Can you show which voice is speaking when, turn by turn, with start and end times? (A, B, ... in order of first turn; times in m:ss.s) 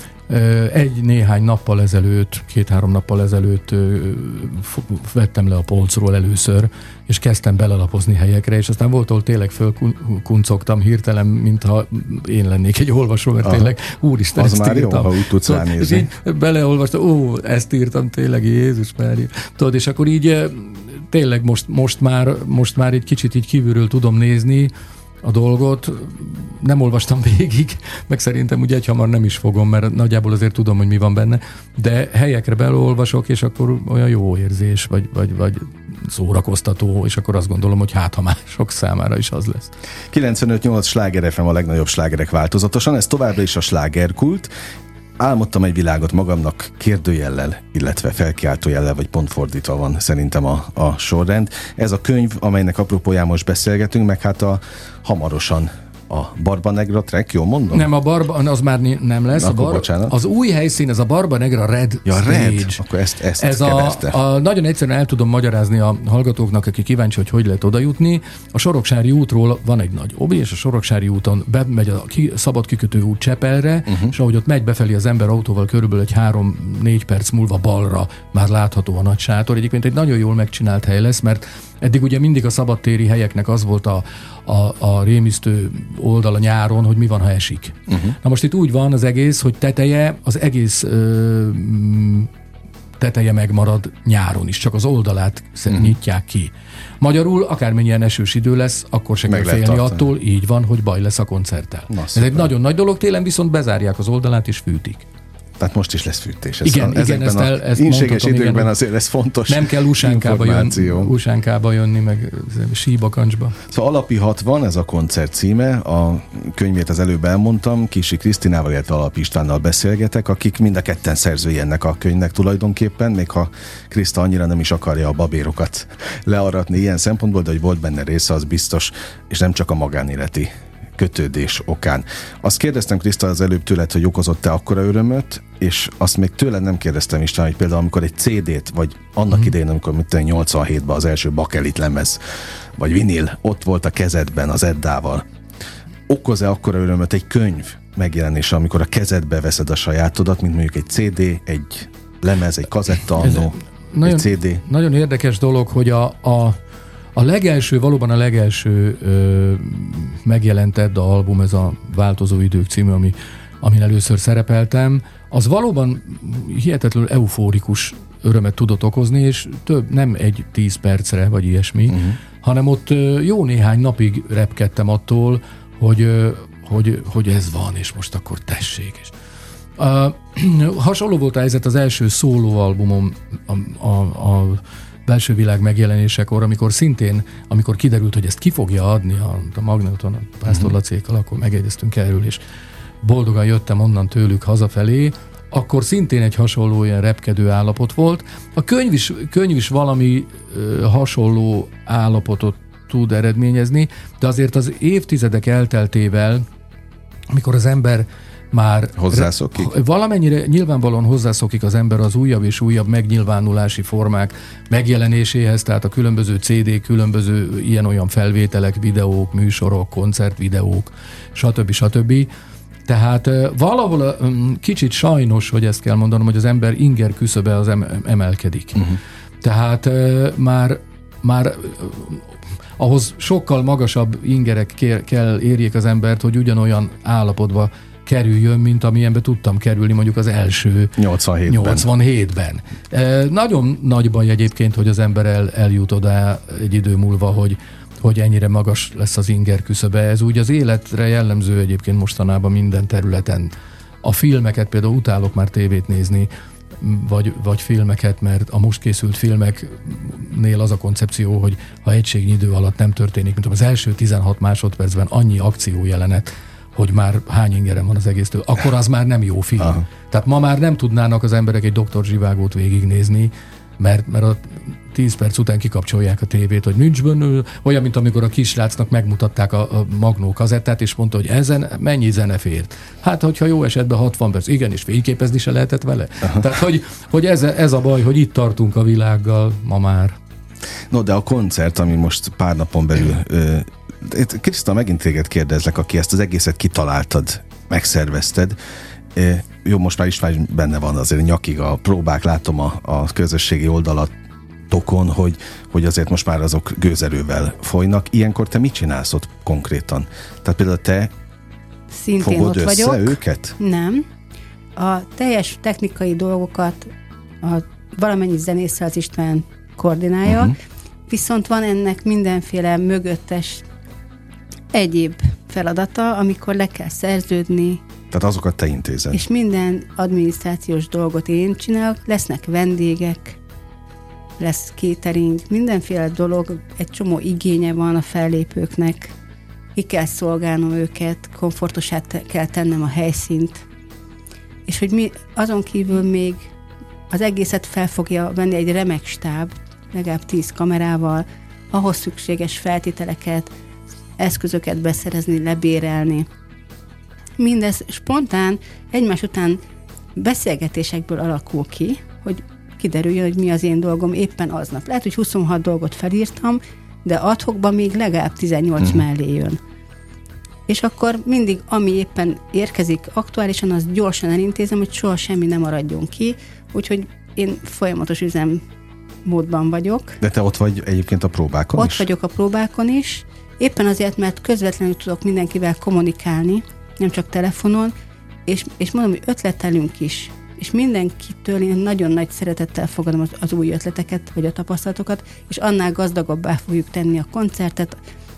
0:00.3-0:24.7 A
0:14.4-0:16.1 B
0:25.2-0:39.7 A
0:40.1-0:44.5 B
0:45.2-0:57.9 B
0:57.7-1:02.8 A
0:59.3-1:00.2 B
1:02.0-1:04.2 B
1:03.4-1:32.3 A
1:27.9-1:28.1 B
1:33.0-1:45.0 A
1:35.7-1:36.0 B
1:39.3-1:40.1 B
1:41.9-1:42.5 B
1:45.6-1:51.1 B
1:46.6-1:48.7 A
1:49.5-1:53.6 A
1:53.7-2:22.2 B
2:22.8-2:25.2 B
2:26.1-2:34.6 B
2:33.2-2:36.6 A
2:37.1-2:59.1 A
2:59.8-3:12.4 A
3:13.0-3:26.4 A
3:27.3-3:42.3 A
3:29.0-3:29.7 B
3:42.9-3:52.3 A
3:52.8-4:50.2 A
4:01.0-4:01.8 B
4:50.9-4:58.6 B
4:59.1-5:04.1 B
5:04.7-5:11.1 B
5:11.9-5:14.0 C
5:12.2-5:13.6 B
5:14.8-5:16.9 C
5:17.4-5:20.6 C
5:20.2-5:20.6 B
5:21.1-5:23.7 C
5:24.7-5:27.8 C
5:28.1-5:29.2 B
5:29.1-5:33.4 C
5:34.4-5:39.1 C
5:39.8-5:43.6 C
5:44.7-5:46.5 C
5:47.1-5:53.5 C
5:54.2-5:56.2 C
5:57.4-5:59.6 C
6:00.2-6:09.6 C
6:10.7-6:18.6 C
6:19.2-6:20.2 C
6:20.2-6:22.0 B
6:21.8-6:27.9 C
6:28.4-6:38.0 C